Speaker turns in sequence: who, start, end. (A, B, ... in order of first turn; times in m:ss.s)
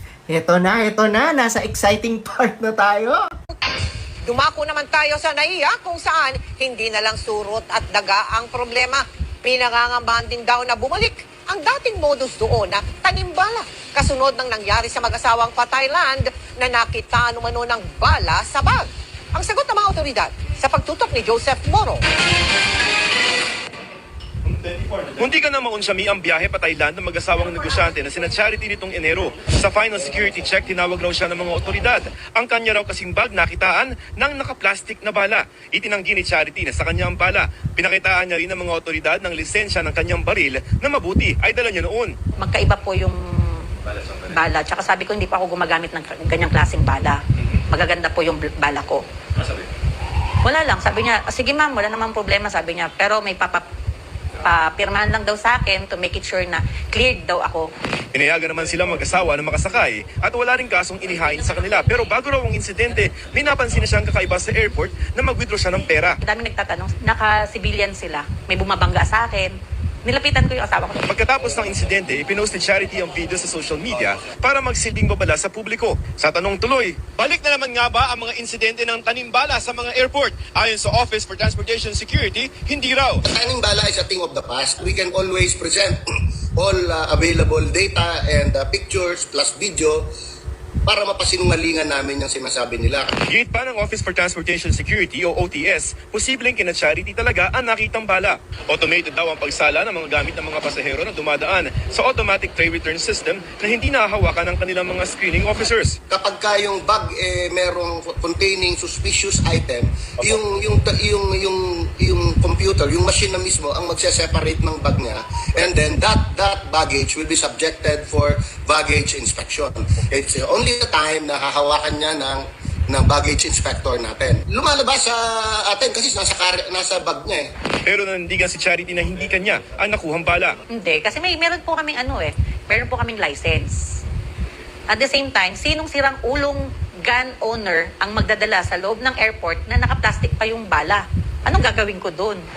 0:00.3-0:03.3 A
0:04.2-0:22.0 B
0:24.4-0:42.2 C
0:42.4-0:43.7 D
0:43.8-0:44.3 C
0:44.3-0:49.0 D
0:47.4-0:47.6 C
0:50.4-0:53.6 D
0:54.4-0:57.7 D
0:58.1-1:06.2 C
1:06.2-1:11.0 D
1:11.1-1:23.2 C
1:23.3-1:26.0 E
1:26.6-1:30.1 E
1:30.8-1:33.1 E
1:33.3-1:46.0 C
1:46.1-2:07.5 E
2:07.8-2:10.6 C
2:10.7-2:14.0 D
2:14.9-2:22.4 D